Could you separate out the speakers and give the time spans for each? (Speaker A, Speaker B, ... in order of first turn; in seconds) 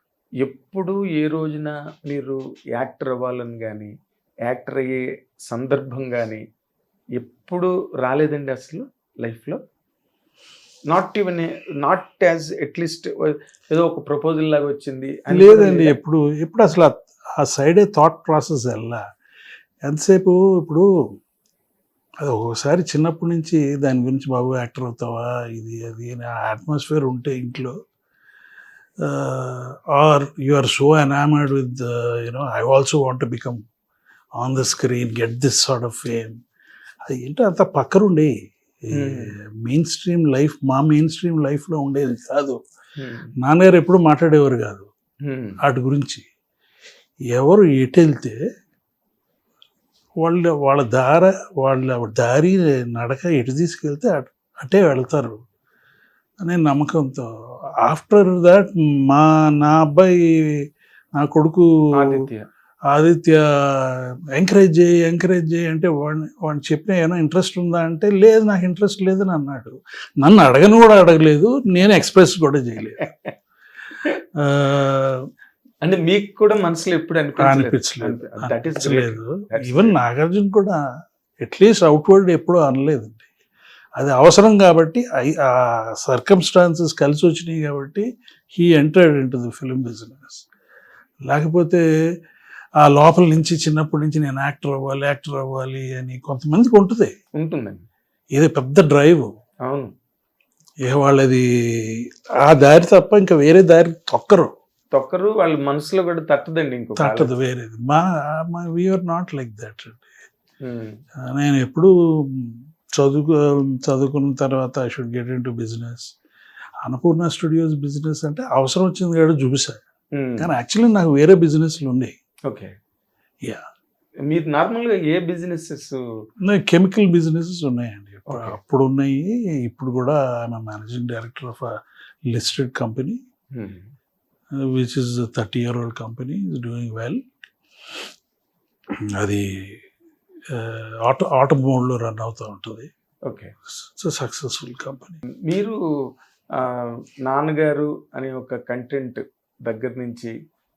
Speaker A: 0.4-3.9, 4.5-6.4, 7.2-9.6, 10.9-15.9, 38.9-39.3, 43.0-43.3, 45.2-45.6, 62.0-62.5, 75.8-79.9, 97.4-97.8, 99.7-99.9, 104.9-107.3, 110.6-111.0, 120.2-120.5, 122.5-122.7, 124.3-126.0, 128.3-128.5, 133.5-133.9, 143.3-143.5, 145.4-145.8, 146.6-150.3
Speaker B: 15.3-19.0, 19.9-20.9, 22.2-27.7, 29.0-33.6, 34.4-36.4, 37.1-38.3, 38.9-42.6, 43.4-44.9, 45.6-46.2, 47.3-48.4, 50.2-55.4, 56.4-57.3, 57.8-62.2, 62.9-73.1, 74.4-75.2, 77.4-80.8, 81.4-83.2, 84.0-90.4, 91.2-91.8, 92.8-97.1, 98.3-99.3, 100.8-104.5, 107.0-110.1, 111.2-116.1, 116.8-119.8, 120.4-122.1, 126.4-131.8, 132.3-133.2, 134.5-137.2, 139.2-139.8, 140.5-142.9, 143.8-145.2